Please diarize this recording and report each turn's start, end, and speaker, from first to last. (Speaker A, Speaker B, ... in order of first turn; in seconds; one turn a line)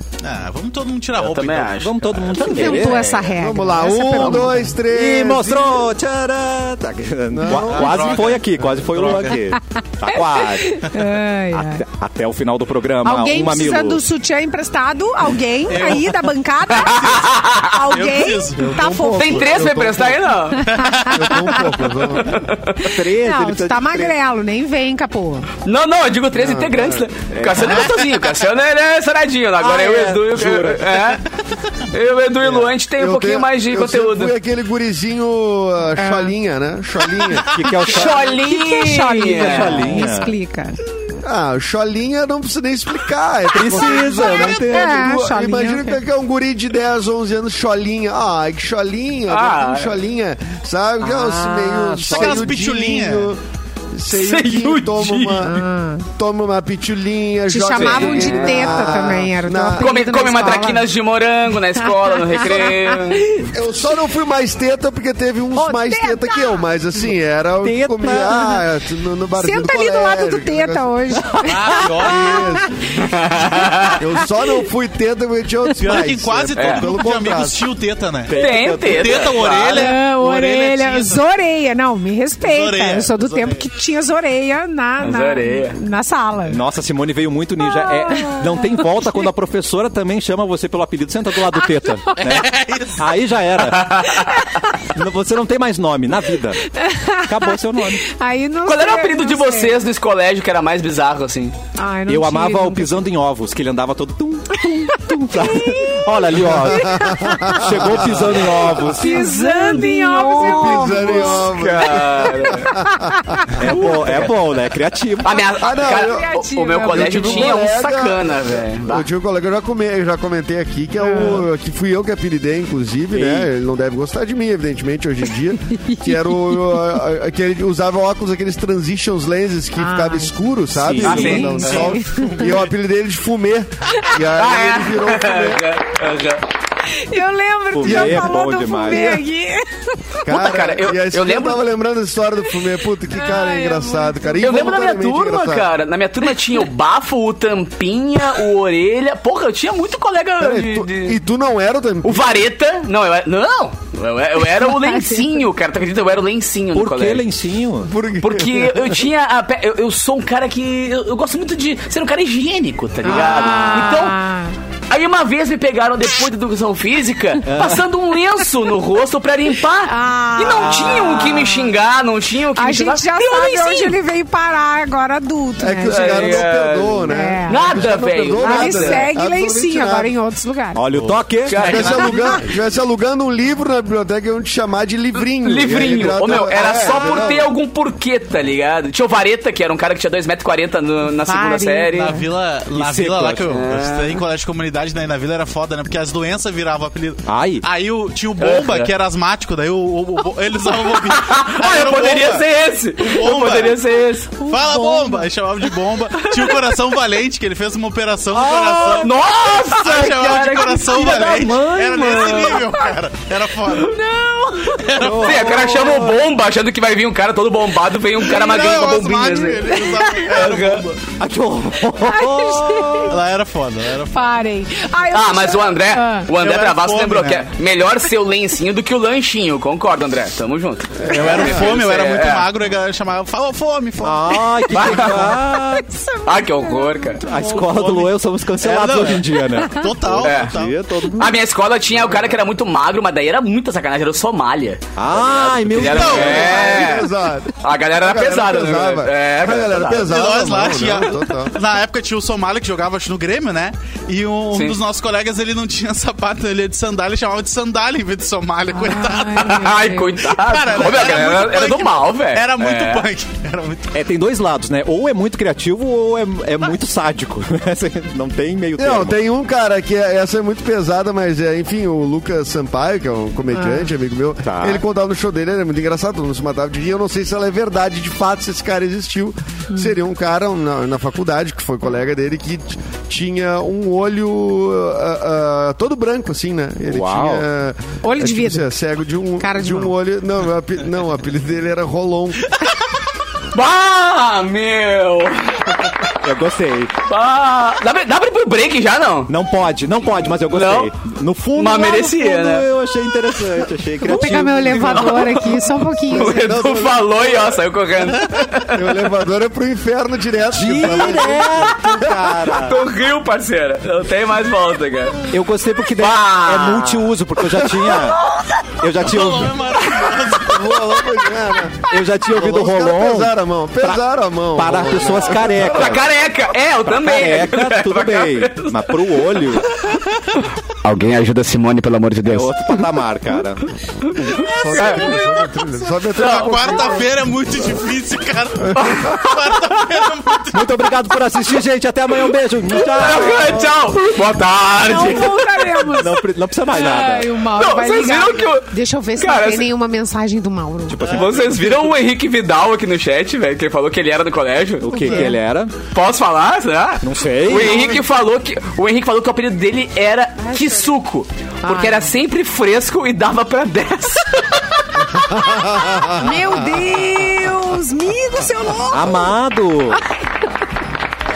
Speaker A: 0.2-1.8
Speaker B: 1.2-3.1
Speaker C: 1.8-3.1
Speaker D: 2.5-4.7
Speaker E: 3.2-5.9
Speaker C: 4.0-11.0
Speaker E: 7.3-8.8
Speaker A: 7.5-9.4
Speaker D: 10.1-11.8
Speaker C: 11.6-14.0
Speaker D: 13.0-19.6
Speaker A: 15.7-16.3
Speaker A: 16.9-17.3
Speaker B: 17.0-17.7
Speaker A: 17.8-18.8
Speaker E: 18.6-22.4
Speaker B: 19.2-20.8
Speaker A: 20.7-21.3
Speaker D: 20.7-21.6
Speaker B: 21.4-22.8
Speaker D: 22.8-25.5
Speaker C: 22.8-24.2
Speaker B: 25.6-31.2
Speaker E: 26.3-27.1
Speaker C: 27.3-27.9
Speaker A: 27.7-28.2
Speaker C: 29.6-30.9
Speaker B: 31.9-34.4
Speaker E: 32.4-37.6
Speaker D: 36.0-36.3
Speaker C: 37.5-38.3
Speaker B: 37.8-39.8
Speaker D: 38.0-40.8
Speaker C: 39.2-40.3
Speaker E: 41.2-53.4
Speaker C: 43.5-45.1
Speaker D: 43.9-46.0
Speaker B: 49.3-50.0
Speaker C: 51.0-52.5
Speaker A: 52.1-53.3
Speaker E: 53.9-59.9
Speaker B: 54.1-55.5
Speaker D: 55.4-56.1
Speaker D: 57.5-60.9
Speaker B: 57.7-59.1
Speaker B: 59.8-63.4
Speaker D: 61.8-63.2
Speaker E: 63.4-70.9
Speaker D: 65.6-66.6
Speaker C: 67.6-68.6
Speaker D: 69.4-74.0
Speaker A: 71.4-72.4
Speaker E: 72.0-72.8
Speaker B: 73.0-74.0
Speaker E: 74.0-77.7
Speaker A: 75.8-81.2
Speaker B: 76.6-76.9
Speaker C: 78.3-79.4
Speaker B: 78.3-80.0
Speaker D: 79.7-86.6
Speaker A: 82.4-83.7
Speaker B: 85.0-85.8
Speaker C: 86.5-94.3
Speaker D: 88.0-88.8
Speaker D: 91.6-91.9
Speaker A: 92.2-93.0
Speaker B: 93.7-94.3
Speaker C: 94.8-96.6
Speaker D: 96.7-99.8
Speaker C: 97.2-98.1
Speaker B: 98.7-101.6
Speaker D: 101.8-103.1
Speaker C: 102.1-109.3
Speaker D: 104.9-107.8
Speaker E: 106.3-108.6
Speaker D: 108.4-111.6
Speaker B: 108.5-112.8
Speaker E: 110.4-113.8
Speaker D: 112.4-113.5
Speaker C: 113.6-115.5
Speaker B: 113.6-114.4
Speaker B: 115.2-119.1
Speaker E: 115.6-135.7
Speaker D: 115.8-117.7
Speaker D: 121.0-121.5
Speaker C: 123.1-123.5
Speaker D: 125.9-126.3
Speaker D: 129.8-130.3
Speaker C: 130.7-131.5
Speaker B: 131.0-131.9
Speaker D: 131.0-132.5
Speaker A: 131.6-132.7
Speaker B: 134.3-136.4
Speaker D: 136.9-140.2
Speaker C: 137.7-139.3
Speaker E: 137.8-138.3
Speaker E: 140.2-145.7
Speaker B: 140.2-141.7
Speaker D: 143.2-144.5
Speaker B: 144.4-151.2
Speaker E: 150.4-152.4
Speaker B: 152.0-157.2
Speaker D: 154.9-155.2
Speaker C: 156.7-157.9
Speaker E: 157.8-159.0
Speaker B: 158.2-164.2
Speaker D: 163.0-164.6
Speaker B: 164.9-174.0
Speaker C: 167.5-167.9
Speaker D: 169.9-171.7
Speaker D: 172.6-176.5
Speaker E: 175.6-180.1
Speaker B: 175.9-179.1
Speaker D: 177.1-180.8
Speaker C: 180.8-181.6
Speaker A: 180.9-182.5
Speaker B: 181.5-182.4
Speaker E: 181.6-187.5
Speaker B: 185.4-192.2
Speaker D: 191.2-192.2
Speaker A: 191.9-202.5
Speaker C: 192.7-193.5
Speaker B: 193.5-194.2
Speaker C: 197.3-197.7
Speaker B: 198.4-198.9
Speaker B: 200.9-204.4
Speaker A: 203.0-203.8
Speaker A: 204.4-214.0
Speaker C: 204.7-205.2
Speaker D: 204.7-205.1
Speaker B: 206.3-206.6
Speaker C: 208.3-209.1
Speaker B: 208.8-211.5
Speaker C: 210.9-212.5
Speaker D: 213.9-214.9
Speaker A: 214.7-215.6
Speaker C: 215.0-216.3
Speaker B: 215.0-220.9
Speaker A: 218.2-221.0
Speaker D: 219.8-220.2
Speaker C: 221.2-223.2
Speaker D: 222.1-223.1
Speaker A: 223.1-224.3
Speaker D: 224.1-226.3
Speaker B: 225.1-232.5
Speaker A: 226.3-227.5
Speaker A: 231.0-235.1
Speaker C: 231.1-231.6
Speaker C: 234.0-235.9
Speaker B: 234.7-235.4
Speaker D: 235.0-237.6
Speaker B: 236.2-237.2
Speaker C: 237.2-241.3
Speaker A: 237.6-240.8
Speaker B: 240.2-240.6
Speaker B: 241.2-250.1
Speaker C: 245.0-246.8
Speaker A: 245.8-246.7
Speaker E: 246.0-251.6
Speaker A: 250.0-263.9
Speaker B: 254.5-254.8
Speaker D: 258.8-260.2
Speaker B: 259.4-263.1
Speaker C: 263.9-269.2
Speaker E: 268.8-292.6
Speaker D: 273.5-273.9
Speaker C: 274.4-274.8
Speaker C: 286.9-287.4
Speaker D: 288.0-288.7
Speaker D: 289.4-289.9
Speaker B: 293.5-296.1
Speaker C: 296.2-297.0
Speaker B: 297.1-299.3
Speaker C: 299.3-305.3
Speaker B: 300.5-300.9
Speaker B: 301.6-302.7
Speaker D: 304.0-306.6
Speaker B: 304.7-305.6
Speaker B: 306.1-309.1
Speaker E: 306.1-307.6
Speaker E: 308.6-312.1
Speaker C: 310.5-312.9
Speaker B: 311.9-315.3
Speaker C: 315.3-318.2
Speaker B: 316.0-318.7
Speaker C: 318.8-319.6
Speaker A: 319.0-320.8
Speaker B: 319.9-320.6
Speaker E: 320.4-326.0
Speaker C: 321.9-324.0
Speaker C: 324.5-326.1
Speaker B: 325.6-329.9
Speaker C: 326.9-329.7
Speaker B: 330.7-332.8
Speaker C: 332.2-333.7
Speaker B: 334.0-335.5
Speaker E: 334.1-337.2
Speaker D: 334.8-335.3
Speaker B: 336.1-337.0
Speaker A: 336.1-340.9
Speaker E: 338.7-339.0
Speaker B: 338.8-339.7
Speaker C: 340.5-343.9
Speaker B: 342.7-346.0
Speaker D: 344.8-351.0
Speaker C: 345.9-347.4
Speaker B: 347.6-349.7
Speaker C: 350.9-351.7
Speaker B: 351.1-355.3
Speaker C: 354.8-355.8
Speaker D: 354.9-355.4
Speaker B: 355.9-365.2
Speaker C: 357.0-357.9
Speaker D: 360.4-361.0
Speaker D: 361.6-362.1
Speaker E: 365.1-366.8
Speaker D: 366.1-369.3
Speaker C: 368.9-370.0